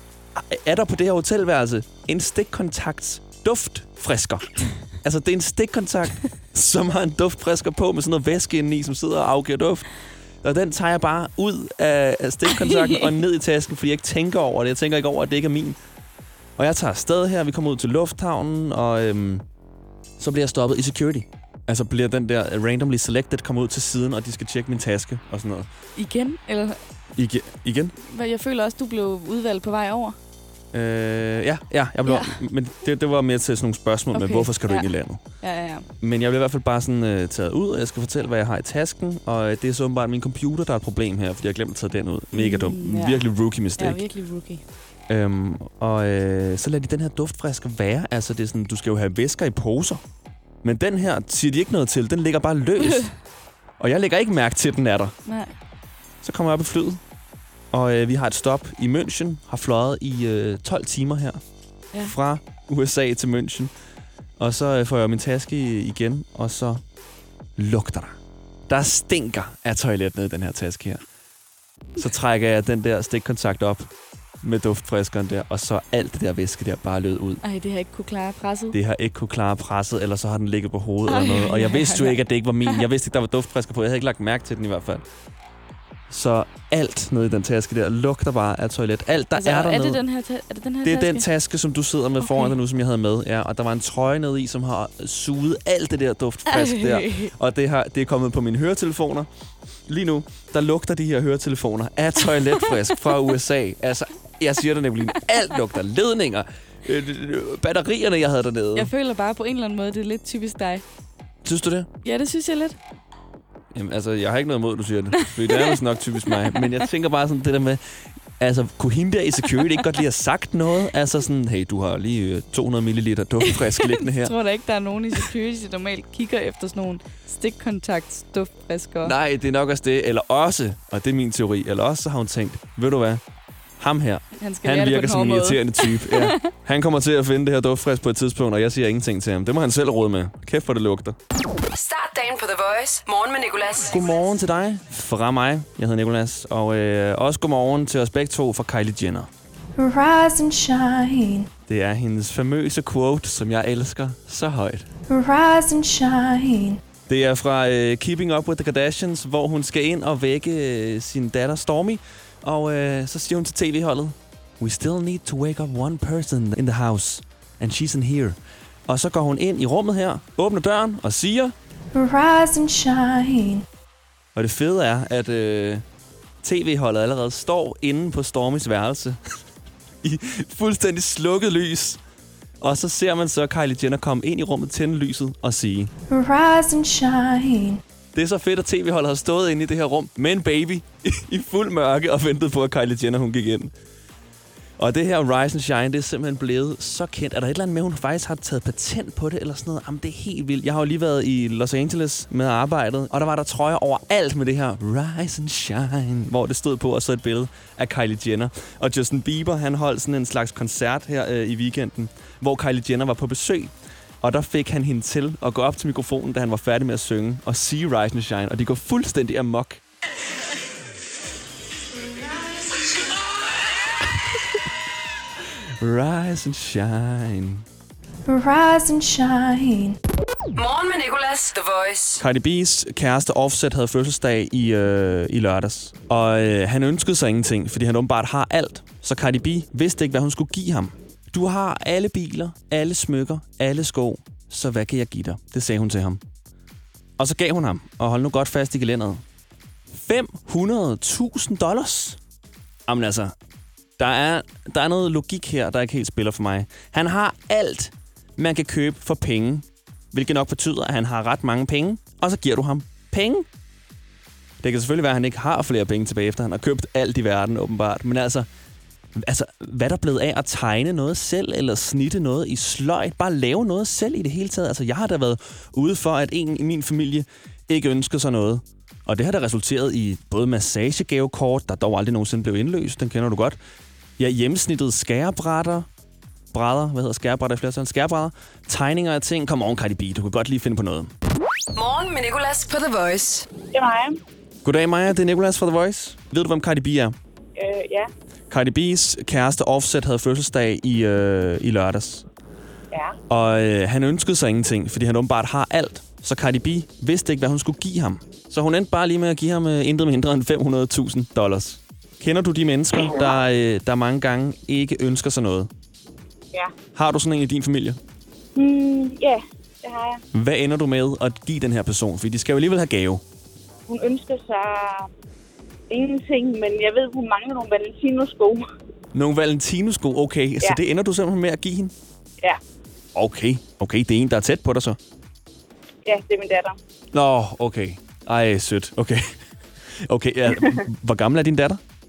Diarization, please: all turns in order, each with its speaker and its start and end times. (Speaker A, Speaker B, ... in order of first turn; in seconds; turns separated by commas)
Speaker A: 0.3-9.9, Speaker A: 10.4-15.8, Speaker B: 12.6-13.0, Speaker A: 16.6-19.4, Speaker A: 20.2-25.7, Speaker B: 25.9-26.8, Speaker A: 27.1-27.9, Speaker B: 28.1-30.1, Speaker A: 30.7-35.3, Speaker B: 32.0-32.4, Speaker B: 34.1-35.9, Speaker A: 36.0-44.0, Speaker B: 42.3-44.6, Speaker A: 45.1-50.0, Speaker A: 50.6-53.1, Speaker A: 53.8-55.2, Speaker B: 55.2-55.5, Speaker A: 56.2-57.0, Speaker A: 57.7-61.4, Speaker A: 62.0-63.7, Speaker A: 64.4-66.8, Speaker A: 67.6-68.2, Speaker A: 68.7-71.0, Speaker A: 72.0-73.9, Speaker A: 74.4-77.4, Speaker B: 77.4-78.7, Speaker A: 78.7-85.0, Speaker B: 81.1-82.2, Speaker A: 86.1-90.0, Speaker B: 89.4-91.2, Speaker A: 90.8-99.3, Speaker B: 92.2-92.5, Speaker B: 96.5-97.3, Speaker A: 99.8-108.9, Speaker B: 108.8-110.8, Speaker A: 111.4-111.9, Speaker B: 112.0-112.8, Speaker A: 113.7-117.8, Speaker B: 115.5-116.6, Speaker A: 118.4-124.3, Speaker B: 123.5-129.1, Speaker A: 129.0-133.2, Speaker A: 133.8-141.2, Speaker B: 134.4-136.5, Speaker C: 141.7-144.2, Speaker A: 143.9-149.3, Speaker D: 149.8-151.5, Speaker A: 151.7-154.9, Speaker D: 155.1-156.8, Speaker A: 157.1-171.5, Speaker D: 171.9-173.6, Speaker A: 174.3-175.8, Speaker A: 176.4-179.4, Speaker A: 180.0-182.0, Speaker A: 182.6-185.9, Speaker D: 186.1-187.8, Speaker A: 188.1-193.7, Speaker A: 194.8-219.8, Speaker A: 225.8-227.6, Speaker D: 228.2-230.0, Speaker C: 230.6-232.2, Speaker A: 232.2-246.2, Speaker A: 247.2-249.2, Speaker A: 249.9-252.2, Speaker A: 252.9-253.3, Speaker A: 254.0-263.4, Speaker A: 264.6-268.5, Speaker A: 269.1-283.6, Speaker A: 284.2-285.9, Speaker A: 286.5-291.1, Speaker C: 291.7-293.5, Speaker E: 293.7-294.2, Speaker A: 294.6-297.1, Speaker E: 297.6-298.1, Speaker A: 298.5-302.2, Speaker E: 302.9-303.2, Speaker A: 303.3-315.7, Speaker A: 316.9-318.0, Speaker E: 318.5-320.2, Speaker A: 320.3-323.2, Speaker E: 323.9-325.1, Speaker E: 325.9-328.6, Speaker A: 329.1-331.9, Speaker A: 333.1-335.0, Speaker E: 336.1-336.8, Speaker A: 337.1-339.3, Speaker A: 339.9-341.8